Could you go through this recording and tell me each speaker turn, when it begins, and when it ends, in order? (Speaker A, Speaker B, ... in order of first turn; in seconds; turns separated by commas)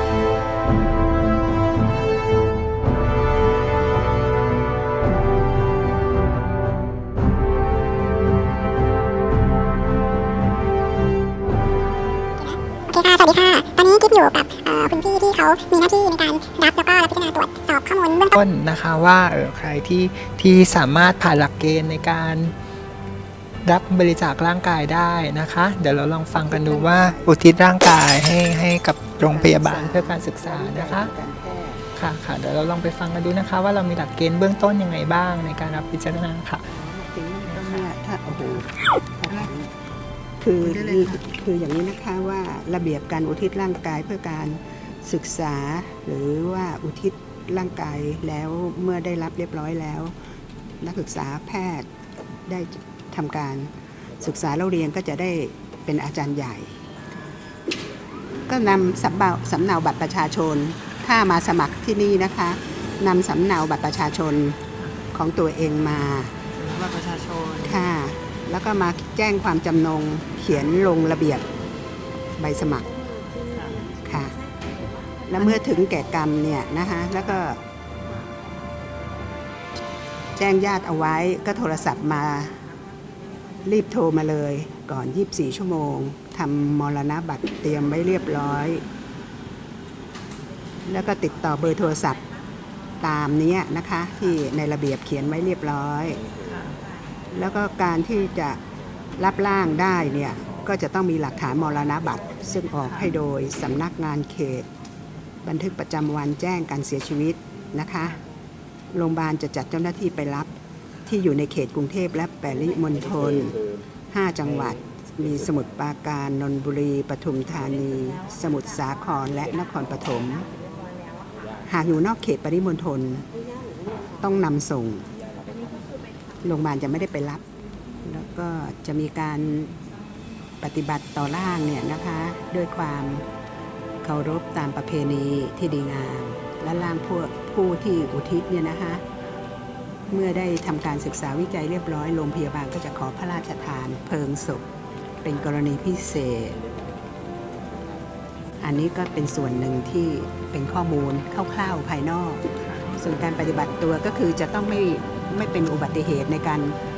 Speaker A: 12.4-18.3, Speaker B: 18.3-22.5, Speaker B: 23.6-31.1, Speaker C: 26.3-27.4, Speaker C: 29.2-31.8, Speaker B: 31.9-36.7, Speaker C: 36.7-39.7, Speaker B: 37.5-37.9, Speaker C: 40.4-50.1, Speaker B: 40.6-41.2, Speaker C: 50.8-51.9, Speaker C: 52.5-56.9, Speaker C: 58.5-64.6, Speaker C: 65.1-66.3, Speaker B: 66.5-67.9, Speaker C: 67.6-71.5, Speaker C: 72.4-73.0, Speaker B: 73.5-73.8, Speaker C: 74.0-74.4, Speaker C: 75.3-77.6, Speaker C: 80.4-82.6, Speaker C: 83.6-88.8, Speaker C: 90.9-92.2, Speaker C: 93.0-96.2, Speaker B: 96.5-96.7, Speaker C: 97.3-98.6, Speaker C: 99.2-104.7, Speaker C: 105.4-108.2, Speaker C: 108.9-110.5, Speaker C: 111.1-113.6, Speaker C: 114.1-120.5, Speaker C: 121.6-123.2, Speaker C: 124.2-125.1, Speaker C: 126.4-127.4, Speaker C: 128.0-129.8, Speaker C: 130.6-133.2, Speaker C: 134.0-139.0, Speaker C: 140.1-144.7, Speaker C: 145.2-146.6, Speaker C: 148.6-152.4, Speaker C: 153.0-156.8